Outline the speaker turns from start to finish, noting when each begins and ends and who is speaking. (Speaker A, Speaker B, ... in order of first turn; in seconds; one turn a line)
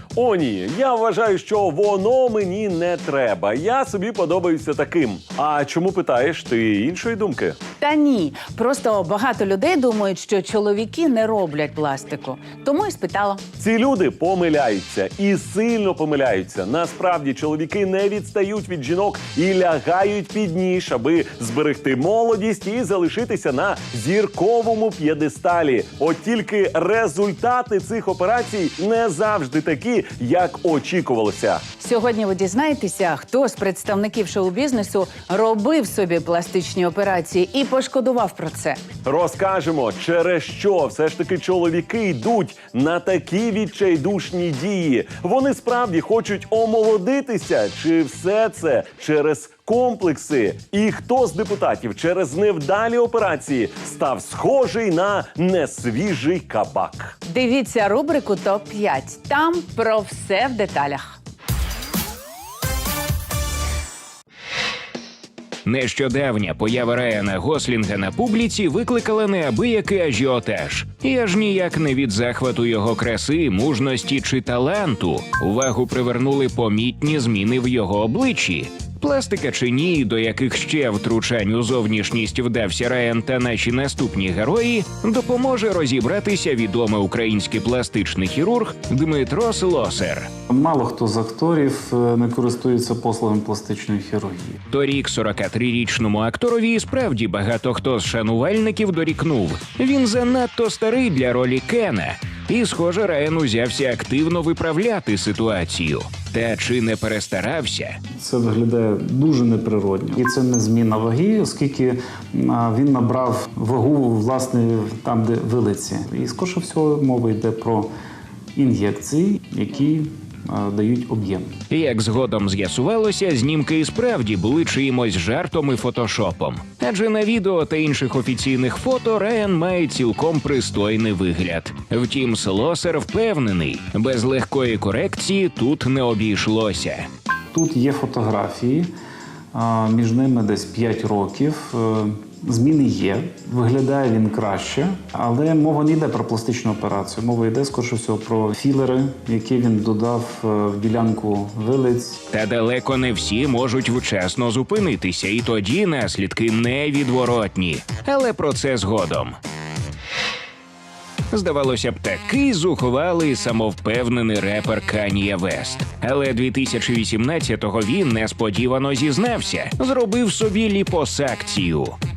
Speaker A: 0.1-7.6
Speaker B: 7.8-13.4
Speaker A: 13.6-31.7
Speaker B: 31.7-38.8
Speaker A: 39.0-57.1
Speaker B: 57.3-61.0
Speaker C: 65.7-90.3
Speaker D: 90.5-94.6
Speaker C: 94.7-108.0
Speaker D: 108.2-117.9
Speaker D: 118.6-121.5
Speaker C: 121.7-137.1
Speaker D: 137.5-138.9
Speaker D: 139.5-152.2
Speaker C: 152.3-159.4
Speaker C: 161.3-172.0